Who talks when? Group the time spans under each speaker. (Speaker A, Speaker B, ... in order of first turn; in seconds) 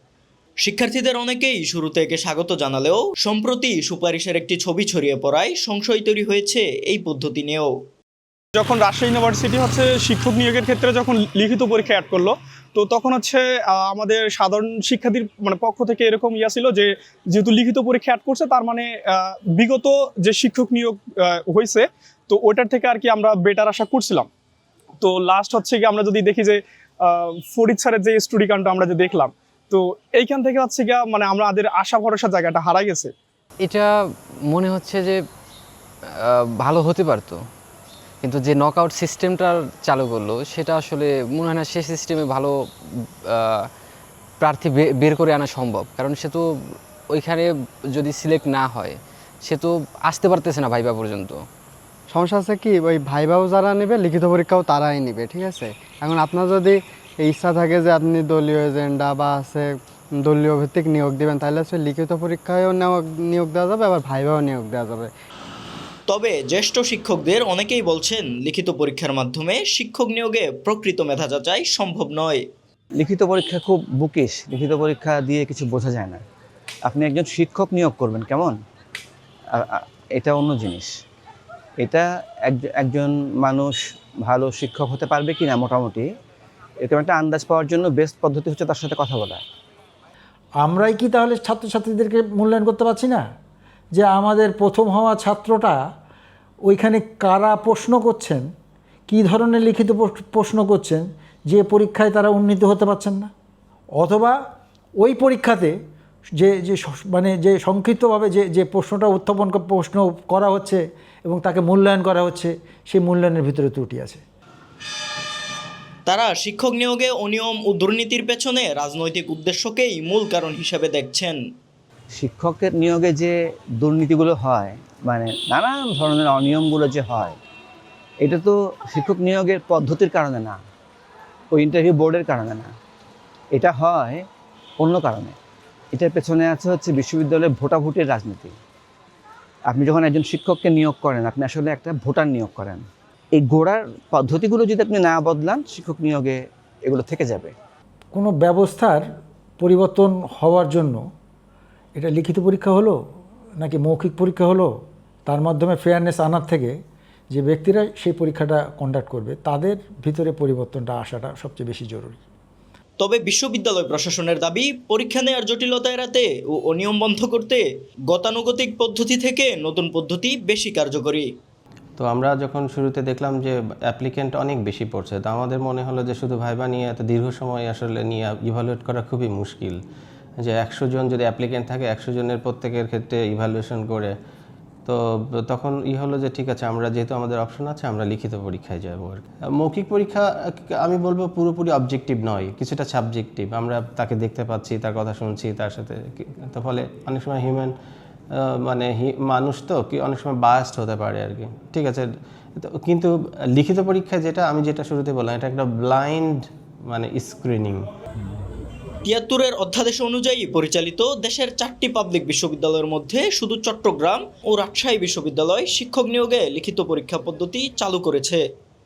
Speaker A: 0.6-7.7, 66.1-72.4, 116.0-121.4, 163.0-171.3, 209.1-218.4
Speaker B: 8.6-24.3, 25.0-33.1
Speaker C: 33.6-33.9, 34.5-35.2, 36.3-37.4, 38.2-42.5, 43.2-43.7, 44.4-51.4
Speaker D: 52.1-65.1
Speaker E: 73.0-76.2, 76.8-78.5, 79.5-80.9, 81.8-86.1, 86.8-89.4, 122.2-127.4, 128.2-130.6, 131.5-132.7, 133.5-134.2, 134.8-135.3, 135.9-138.5, 139.7-142.8, 143.3-147.5
Speaker F: 90.6-93.2, 94.0-95.8, 96.7-98.5, 99.1-103.3, 104.0-104.4, 105.0-105.7, 106.4-114.2, 148.1-149.0, 149.6-151.0, 152.0-153.0, 153.6-154.7, 155.3-156.8, 157.3-162.2
Speaker G: 172.0-179.8, 180.4-184.1, 184.8-197.7, 198.3-206.4, 206.9-207.8